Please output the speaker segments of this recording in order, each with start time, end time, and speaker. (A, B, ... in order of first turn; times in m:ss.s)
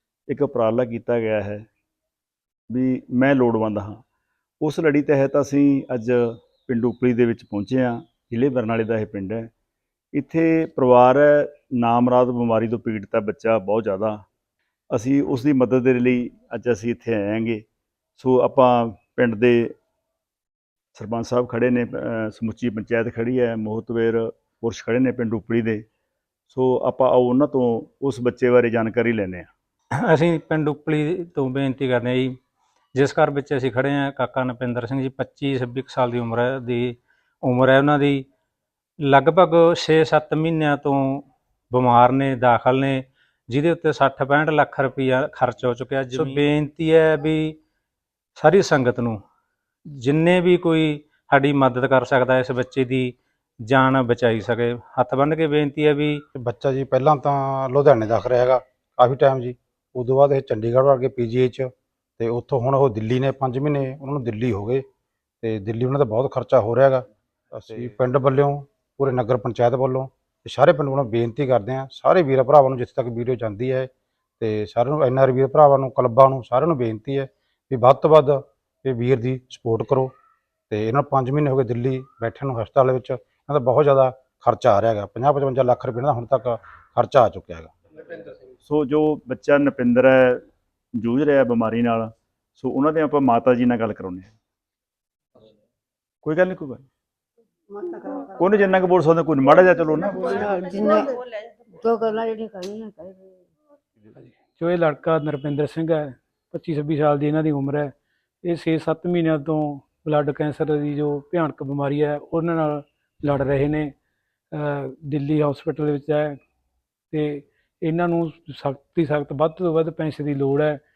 0:00.3-0:01.6 A
0:02.7-0:04.0 A
0:04.6-0:09.5 A
0:10.1-0:14.2 A
0:14.9-0:17.6 A
0:18.2-0:19.7 A
0:20.9-0:25.8 A
0:26.5-0:29.5 A
0:30.0-0:32.3 B
0:32.9-0:38.2 B
0:39.0-0:47.6 B
0:48.4-0:49.2 B
0:50.0-0:53.1 B
0:53.6-0:56.2 B
0:56.4-1:04.8 C
1:05.4-1:20.1 C
1:20.7-1:27.7 C
1:28.6-1:30.4 A
1:31.0-1:34.3 A
1:36.2-1:36.8 A
1:37.7-1:38.4 D
1:38.4-1:40.6 A
1:40.2-1:41.2 D
1:41.8-1:43.3 D
1:44.6-1:47.9 E
1:48.4-1:53.9 E
1:54.5-1:56.4 E
1:57.1-2:00.8 E